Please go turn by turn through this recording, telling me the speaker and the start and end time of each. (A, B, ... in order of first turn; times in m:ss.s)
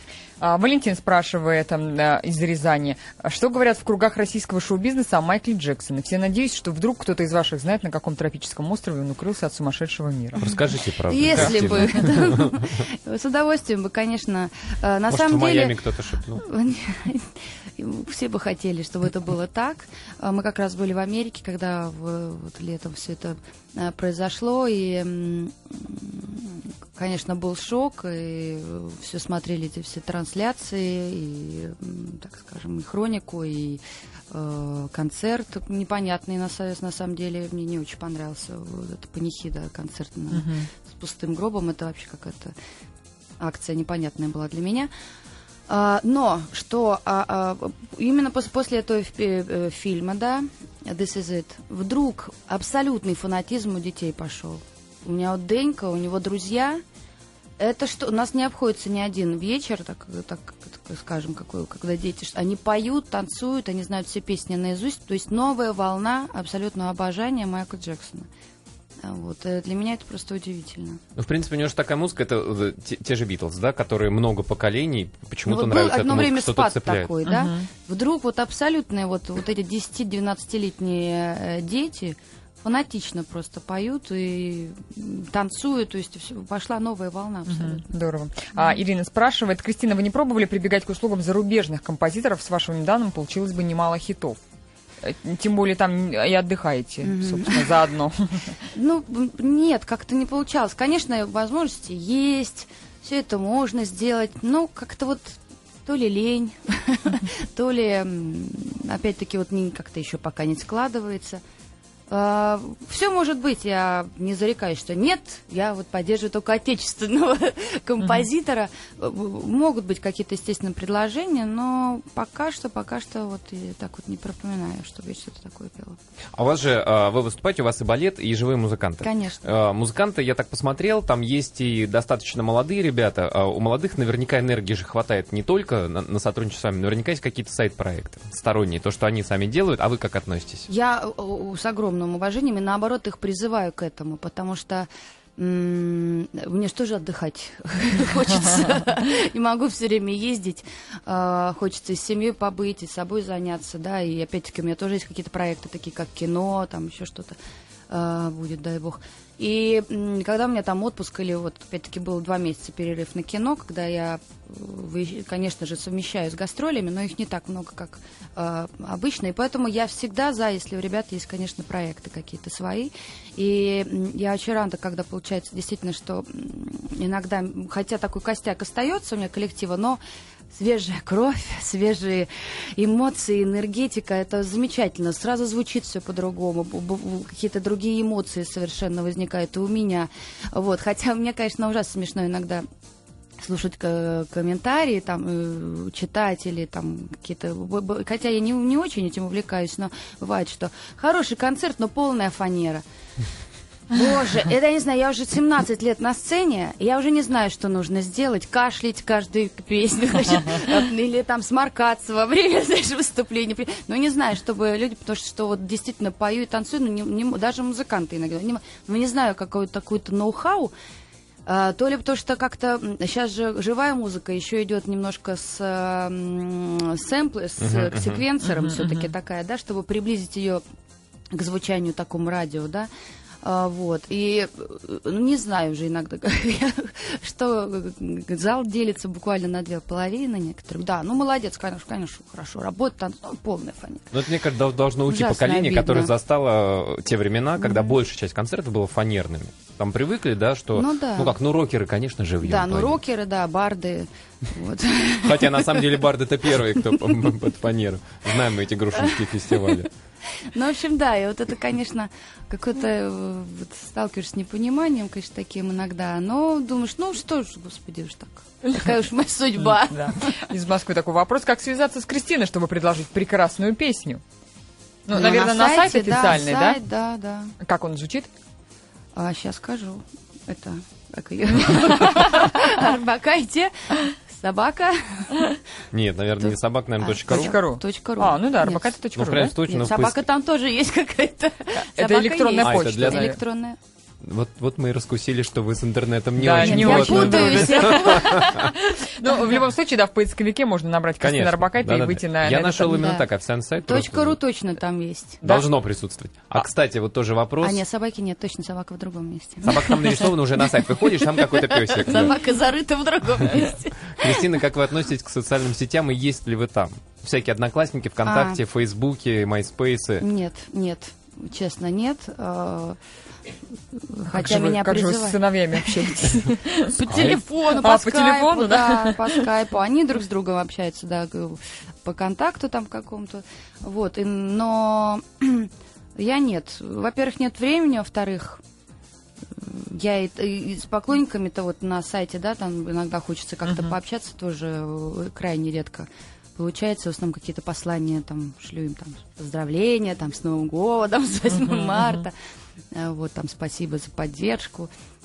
0:00.4-0:10.5 A
0:10.4-0:12.5 B
0:11.1-0:42.5 C
0:15.1-0:16.4 B
0:40.4-0:40.7 A
0:43.4-0:44.9 C
0:45.7-0:56.8 C
0:57.6-1:08.3 C
1:09.0-1:11.0 C
1:11.2-1:17.1 B
1:15.5-1:27.9 C
1:17.2-1:17.7 A
1:27.5-1:34.4 A
1:35.0-1:38.6 A
1:37.0-1:37.9 C
1:38.7-1:51.4 C
1:52.1-2:06.0 C
2:06.4-2:20.7 B
2:09.0-2:09.5 C
2:20.7-2:37.4 C
2:37.9-3:00.0 C
3:00.5-3:12.6 C
3:13.4-3:22.8 C
3:23.9-3:40.7 C
3:41.5-3:50.6 C
3:47.6-3:48.2 B
3:48.6-3:48.9 A
3:51.3-3:52.9 C
3:53.4-4:04.2 C
4:04.1-4:13.0 B
4:05.1-4:06.1 C
4:07.6-4:08.0 C
4:10.7-4:11.4 C
4:12.4-4:16.1 C
4:15.2-4:19.9 B
4:16.7-4:17.1 C
4:18.9-4:19.9 C
4:20.5-4:30.5 C
4:29.6-4:34.2 A
4:35.1-4:36.8 A
4:35.1-4:37.5 C
4:37.6-4:38.3 A
4:39.2-4:45.6 C
4:45.9-4:47.6 B
4:46.4-4:49.0 C
4:47.3-4:49.5 A
4:49.2-4:50.3 B
4:49.6-4:53.8 C
4:51.8-4:53.4 A
4:52.6-4:53.4 B
4:54.2-4:58.7 B
4:56.4-5:03.0 A
4:56.6-4:58.3 C
5:01.2-5:04.4 B
5:02.9-5:03.3 C
5:03.8-5:05.4 C
5:05.4-5:07.8 B
5:07.6-5:14.4 C
5:09.6-5:12.4 B
5:14.1-5:20.3 B
5:18.2-5:18.6 C
5:20.2-5:23.0 C
5:23.9-5:38.6 C
5:24.3-5:27.0 A
5:27.1-5:27.4 B
5:27.6-5:29.5 A
5:39.5-5:52.3 C
5:52.9-5:54.9 C